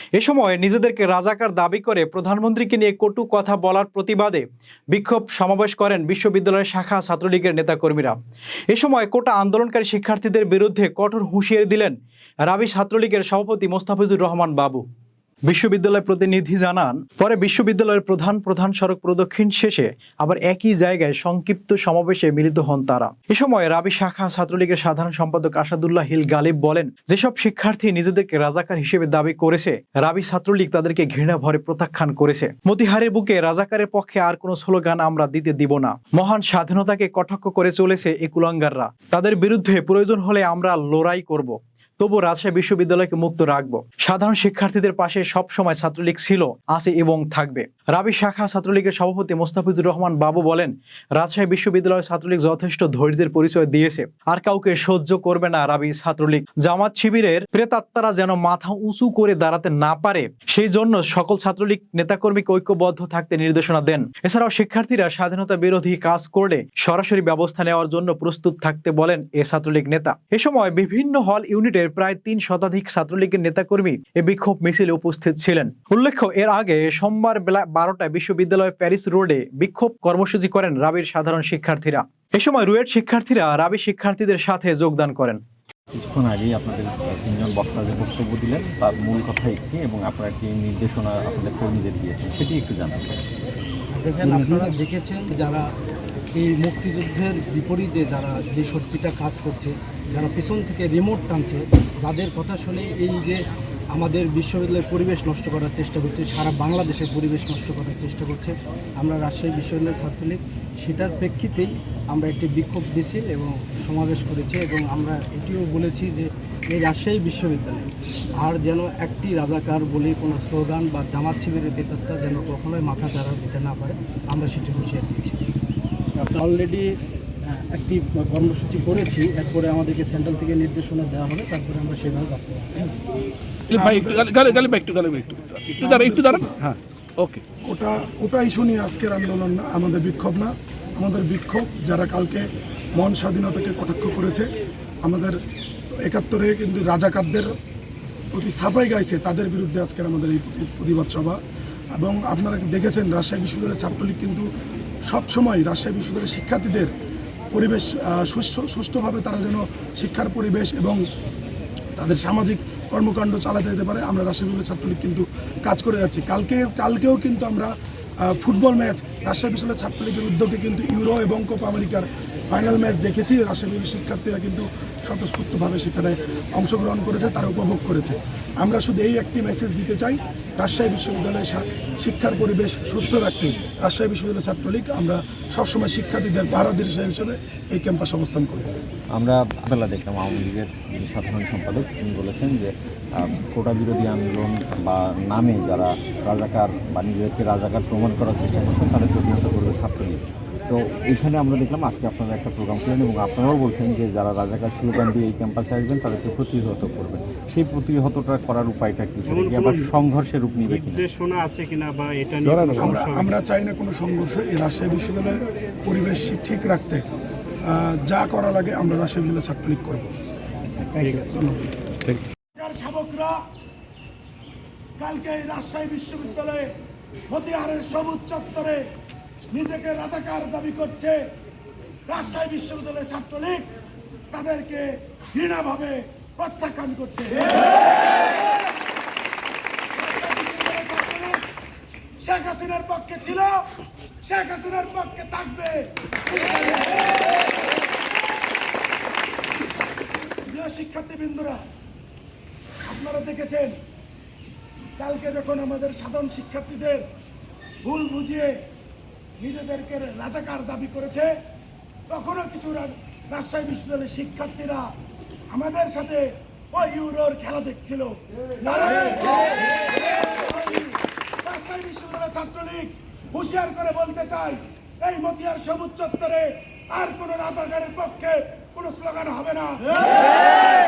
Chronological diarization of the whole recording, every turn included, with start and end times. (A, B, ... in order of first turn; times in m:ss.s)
0:00.2-0:08.2 A
0:08.7-0:14.8 A
0:15.5-1:25.4 A
1:25.9-1:33.1 B
1:34.0-1:35.7 C
1:36.3-1:57.9 C
1:58.4-2:05.4 C
2:06.2-2:06.9 C
2:07.4-2:12.9 C
2:13.7-2:14.3 D
2:13.7-2:17.4 E
2:15.7-2:16.6 D
2:17.6-2:22.4 D
2:23.0-2:24.5 D
2:25.0-2:25.4 D
2:26.0-2:27.5 D
2:28.3-2:31.4 D
2:31.9-2:34.4 D
2:35.1-2:36.9 D
2:37.5-2:41.0 D
2:42.0-2:47.7 D
2:48.2-3:08.8 D
3:09.1-3:31.0 B
3:29.2-3:29.9 F
3:30.6-3:33.3 F
3:32.4-3:32.8 E
3:32.7-3:37.0 D
3:37.6-3:40.1 D
3:40.9-3:41.7 C
3:41.0-3:41.4 F
3:42.6-3:43.4 D
3:45.0-3:46.7 D
3:47.3-3:48.8 D
3:49.5-3:51.2 D
3:52.1-3:53.7 D
3:54.3-3:58.0 D
3:59.9-4:01.4 D
4:02.2-4:03.6 D
4:04.2-4:07.2 D
4:10.4-4:11.6 D
4:12.8-4:13.7 D
4:15.0-4:17.0 D
4:17.8-4:18.6 D
4:19.4-4:21.3 D
4:22.1-4:24.9 D
4:25.5-4:40.5 D